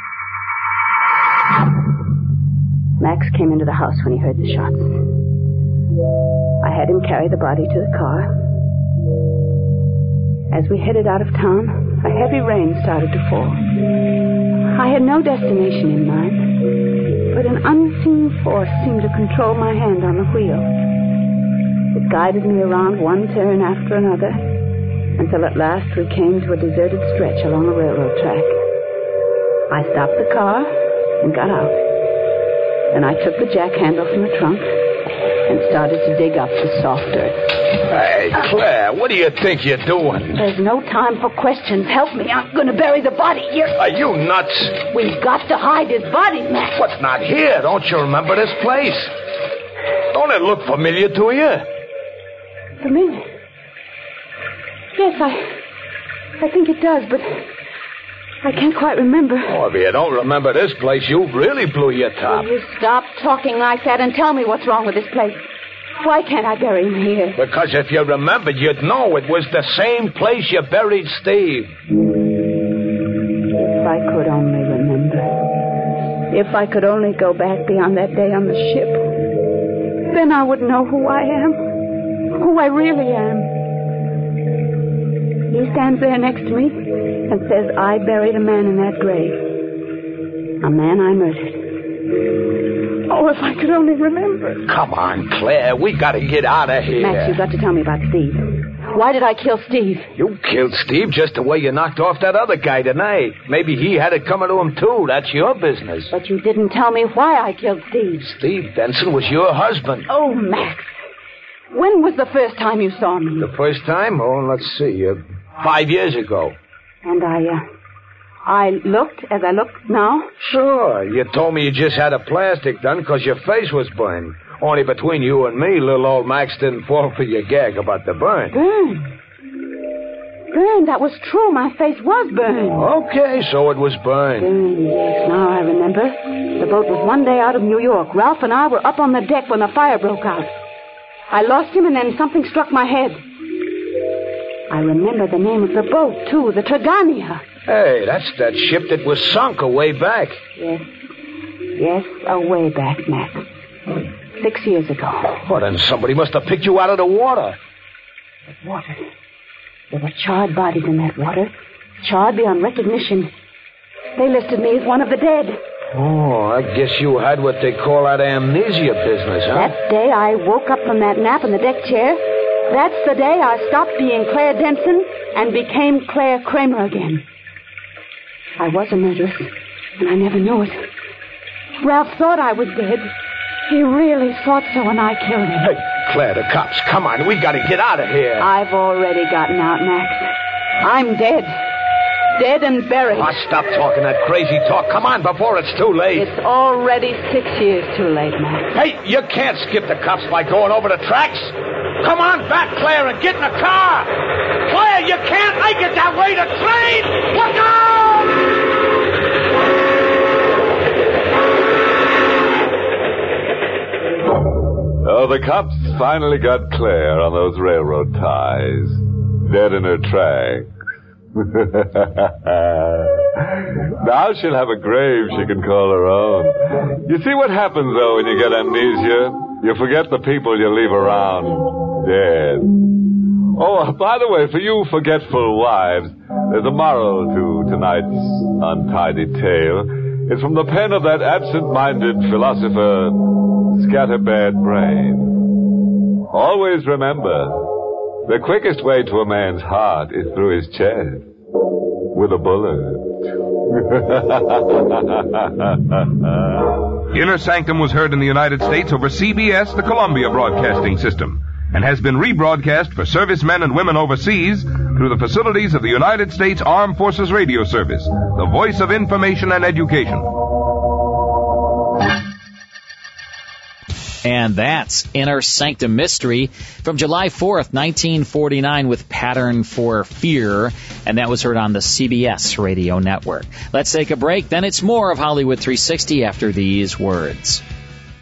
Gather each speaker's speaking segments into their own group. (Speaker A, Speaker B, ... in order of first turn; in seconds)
Speaker A: 3.0-5.0, 6.6-8.3, 10.5-13.6, 14.7-16.6, 17.3-20.7, 21.9-24.5, 25.1-28.5, 29.7-31.8, 32.9-34.7, 35.5-37.4, 40.3-43.8, 44.9-46.8, 52.8-53.2, 54.9-55.6, 56.4-57.5, 58.4-59.6, 62.2-65.5, 66.0-67.4, 73.5-75.3, 76.3-79.0, 80.1-81.6, 82.3-83.5, 85.5-89.4, 90.6-91.7, 93.1-94.6, 97.0-100.1, 106.1-108.2, 110.1-110.9, 111.7-113.5, 117.0-117.6, 118.5-120.3, 128.5-129.1, 130.5-132.9, 134.4-140.5, 141.3-143.2, 144.7-147.4, 150.6-150.9, 151.8-153.4, 154.3-155.4, 158.6-159.1, 159.9-163.3, 164.2-165.6, 169.5-177.2, 178.6-180.8, 181.8-183.1, 183.7-185.7, 188.4-191.5, 192.4-193.3, 196.1-198.7
Speaker B: 37.8-40.4, 43.8-44.8, 46.8-49.1, 50.1-51.6, 59.5-62.5, 67.3-71.7, 94.7-97.4, 100.2-106.1, 108.2-110.1, 113.4-116.5, 120.4-128.6, 132.7-134.5, 147.7-150.4, 155.4-157.6, 165.9-169.7, 185.6-188.5, 193.1-196.3, 198.7-208.3
Speaker C: 215.0-220.7, 221.3-232.7, 233.5-243.2, 243.7-245.4, 246.3-247.7, 248.2-251.3, 252.1-256.5
Speaker D: 257.1-270.3
Speaker E: 274.2-287.6